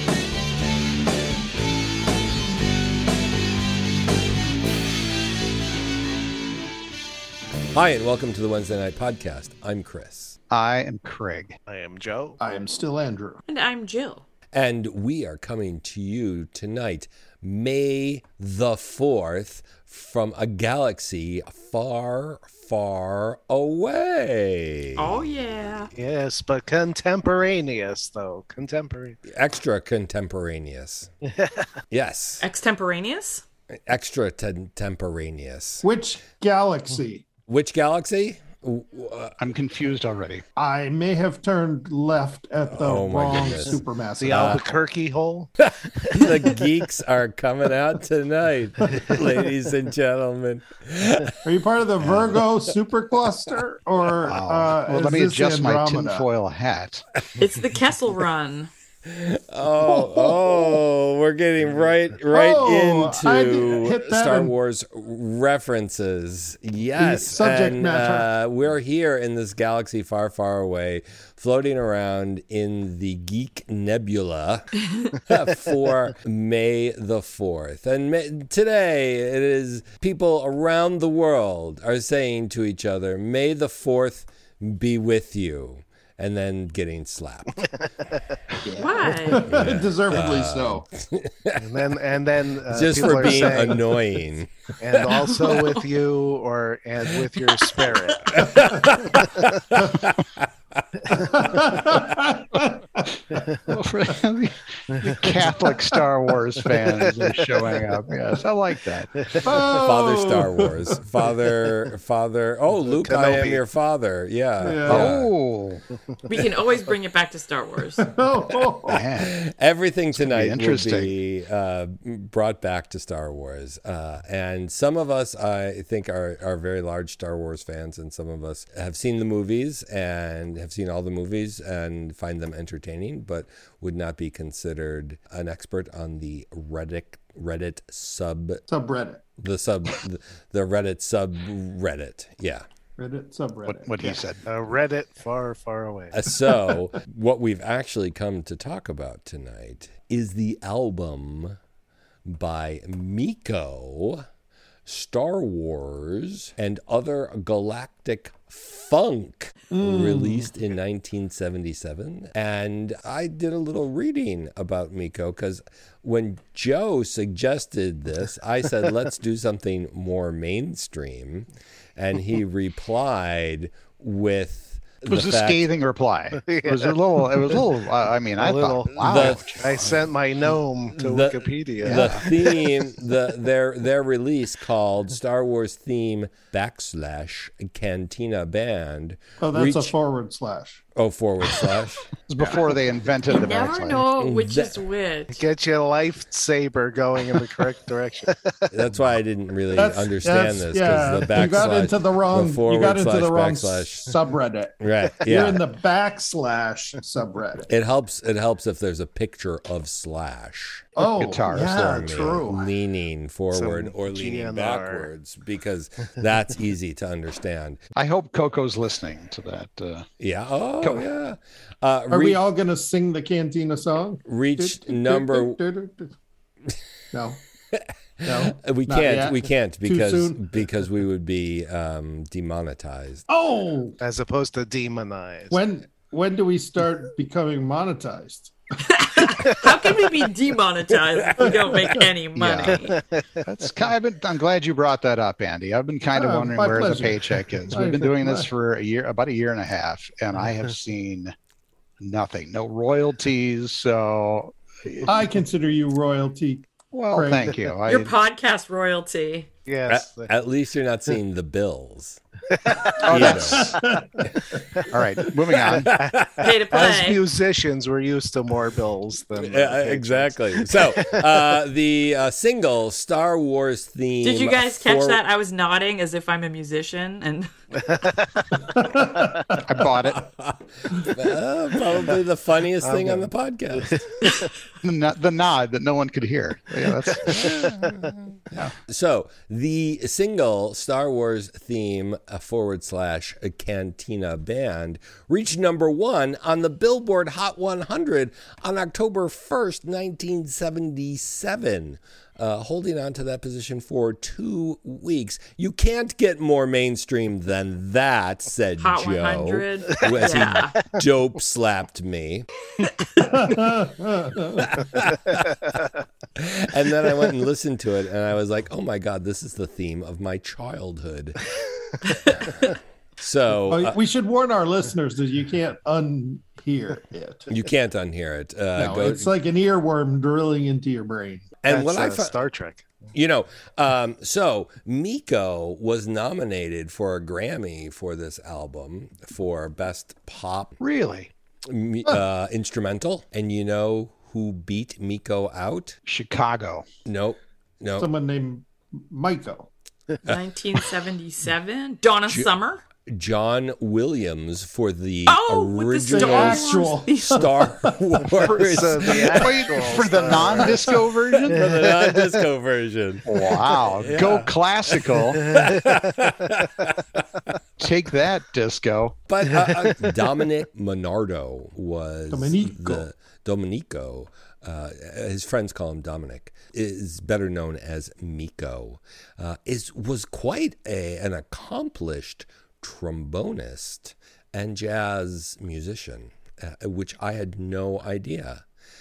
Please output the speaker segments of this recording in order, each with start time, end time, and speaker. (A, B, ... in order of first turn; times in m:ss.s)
0:07.7-0:10.4 A
0:10.5-0:11.6 B
0:11.7-0:12.4 C
0:12.4-0:13.4 D
0:13.4-0:14.3 E
0:14.5-0:25.3 A
0:25.0-0:25.9 E
0:26.0-0:29.2 C
0:29.3-0:31.1 A
0:31.2-0:31.8 C
0:31.9-0:32.4 A
0:32.4-0:33.4 E
0:33.9-0:35.8 A
0:35.8-0:37.2 D
0:37.5-0:39.4 A
0:39.4-0:40.4 B
0:40.6-0:44.6 D
0:42.7-0:44.6 A
0:44.2-0:46.6 C
0:45.6-0:51.4 A
0:51.4-0:56.3 D
0:52.0-0:52.4 A
0:54.2-0:57.0 B
0:57.4-0:58.7 E
0:59.0-1:27.6 A
1:00.0-1:00.8 D
1:02.3-1:04.5 D
1:07.0-1:08.3 D
1:28.6-1:30.9 D
1:28.8-1:29.5 E
1:29.4-1:31.8 A
1:31.6-1:33.9 C
1:32.7-1:34.8 A
1:34.8-1:39.5 C
1:35.1-1:35.7 E
1:37.8-1:40.9 A
1:38.6-1:38.9 D
1:41.1-1:43.2 D
1:43.7-1:49.3 B
1:44.9-1:45.5 C
1:46.6-1:47.9 C
1:49.2-1:49.6 C
1:49.4-1:51.0 D
1:49.7-1:55.3 A
1:52.9-1:53.6 C
1:54.6-1:55.1 D
1:54.8-1:55.8 B
1:56.3-1:58.1 E
1:58.0-1:59.0 D
1:58.9-1:59.3 B
1:58.9-2:18.6 A
2:00.1-2:01.1 B
2:18.7-2:19.2 D
2:19.4-2:22.6 A
2:23.0-2:24.2 D
2:23.7-2:24.5 B
2:24.5-2:26.2 C
2:26.1-2:31.6 A
2:32.3-2:34.2 A
2:34.8-2:55.6 A
2:39.7-2:40.5 D
2:55.1-3:00.0 B
2:56.4-2:57.6 C
2:58.4-3:02.9 C
2:59.0-3:00.0 A
3:00.9-3:09.9 A
3:01.8-3:02.3 B
3:09.4-3:10.8 D
3:11.0-3:12.1 A
3:12.3-3:14.0 B
3:13.3-3:15.4 E
3:14.2-3:14.8 A
3:15.3-3:18.8 C
3:18.7-3:24.1 A
3:19.8-3:27.7 D
3:24.8-3:25.7 A
3:27.7-3:30.9 A
3:31.0-3:32.7 D
3:31.2-3:32.0 B
3:31.6-3:37.8 A
3:33.5-3:35.1 C
3:38.0-3:40.1 B
3:40.2-3:42.4 A
3:40.8-3:41.1 B
3:42.1-3:46.2 D
3:44.3-3:45.6 A
3:47.1-3:47.4 D
3:47.7-3:53.2 A
3:48.3-3:50.6 D
3:53.3-3:54.0 D
3:54.0-3:55.6 C
3:55.5-3:58.6 D
3:58.9-4:03.0 E
4:01.2-4:02.0 A
4:01.4-4:02.0 D
4:02.4-4:02.8 B
4:02.7-4:03.4 C
4:03.4-4:11.3 B
4:06.1-4:08.5 D
4:12.0-4:15.1 B
4:15.1-4:17.6 D
4:16.9-4:18.1 B
4:17.9-4:19.5 E
4:19.7-4:20.3 C
4:19.9-4:22.2 A
4:22.7-4:23.1 C
4:23.0-4:23.8 A
4:23.0-4:23.8 B
4:23.5-4:24.1 D
4:24.9-4:25.9 B
4:25.6-4:26.4 A
4:26.0-4:31.4 C
4:26.4-4:27.2 E
4:29.3-4:35.2 A
4:34.2-4:37.5 E
4:37.8-4:38.8 C
4:38.8-4:39.4 D
4:39.6-4:40.2 B
4:40.2-4:44.0 A
4:42.8-4:43.3 C
4:43.9-4:44.5 C
4:44.8-4:47.7 B
4:47.2-5:12.5 A
5:08.8-5:10.9 E
5:13.2-5:14.8 D
5:14.6-5:15.5 A
5:16.4-5:21.5 A
5:22.0-5:24.0 A
5:23.7-5:27.5 D
5:27.5-5:29.3 A
5:28.8-5:31.4 D
5:31.6-5:32.4 A
5:31.7-5:33.1 C
5:33.1-5:40.8 A
5:40.8-5:41.3 B
5:41.6-5:46.0 A
5:46.1-5:46.9 B
5:47.1-5:48.1 A
5:48.0-5:49.7 D
5:50.3-5:52.8 E
5:53.1-5:59.7 A
5:55.3-5:57.4 E
5:56.1-5:58.3 D
5:58.4-6:01.1 C
5:59.3-6:01.7 B
6:01.3-6:04.5 A
6:01.6-6:02.3 C
6:03.2-6:05.6 B
6:05.1-6:07.2 A
6:05.4-6:06.0 C
6:07.8-6:09.2 B
6:09.3-6:28.6 A
6:09.6-6:10.2 C
6:12.3-6:13.1 D